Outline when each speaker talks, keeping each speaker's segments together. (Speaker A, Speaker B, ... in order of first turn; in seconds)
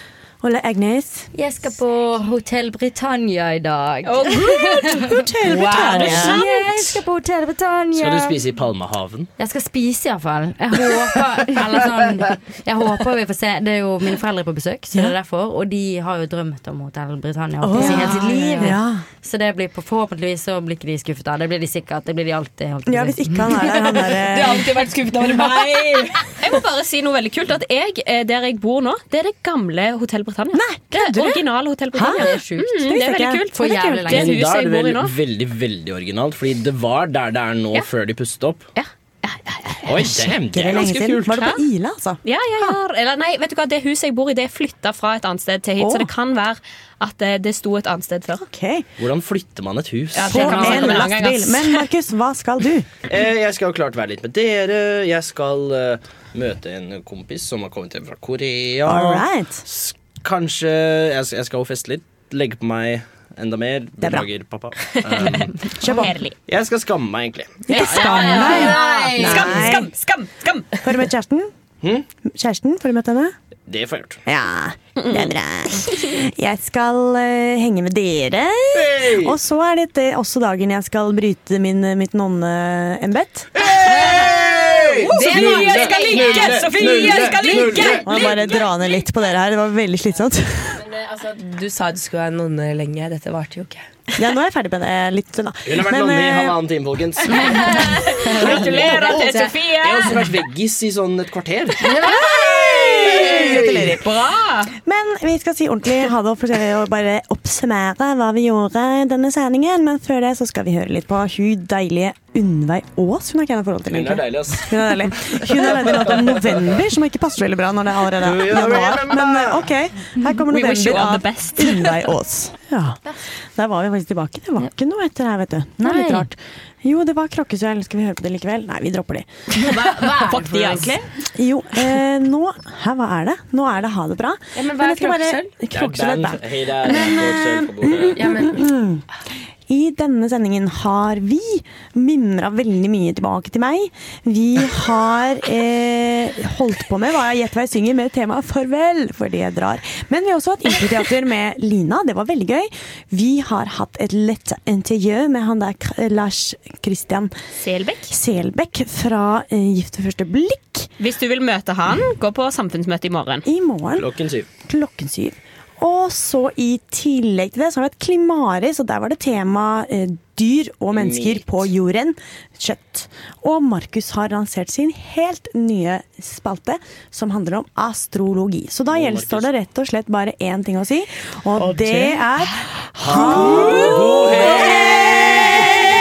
Speaker A: 0.4-1.3, 5.0-6.5, 17.6-19.0, 22.9-24.7, 30.5-34.3, 40.0-42.8, 45.8-46.1, 48.4-48.9, 50.2-52.9, 58.9-59.6, 64.0-64.3, 65.8-66.2, 67.7-69.9, 70.8-71.5, 72.2-73.3, 74.2-83.6, 87.8-90.8, 94.2-96.6, 102.8-104.1, 104.7-129.3, 131.2-139.0, 139.7-157.3, 158.1-160.9, 163.4-164.1, 164.6-184.0
Speaker B: 1.3-8.4, 9.4-24.2, 32.0-32.8, 33.5-34.5, 50.3-51.1, 125.8-126.3
Speaker C: 4.0-6.5, 26.4-35.1, 38.7-40.1, 41.3-41.6, 42.2-48.4, 50.1-51.9, 64.9-66.3, 67.7-70.8, 75.0-75.3, 85.0-88.8, 97.3-100.2, 102.0-104.7, 120.5-122.1, 130.2-131.0, 157.6-158.1, 161.0-163.4, 183.6-185.5
Speaker D: 5.5-6.3, 24.0-26.4, 67.9-69.7, 85.1-87.2, 90.7-93.9, 98.4-99.5, 101.8-103.7, 129.6-131.0, 134.5-135.5, 138.2-138.6
Speaker E: 7.9-9.3, 34.1-38.6, 39.8-41.4, 49.0-50.7, 53.1-65.7, 66.5-67.8, 73.7-74.2, 78.7-79.3, 83.5-88.5, 95.7-101.9, 103.2-103.7, 113.9-116.7, 118.2-119.7, 135.7-138.3, 163.9-164.5, 170.9-171.6, 178.9-179.5, 181.6-181.9, 183.0-185.8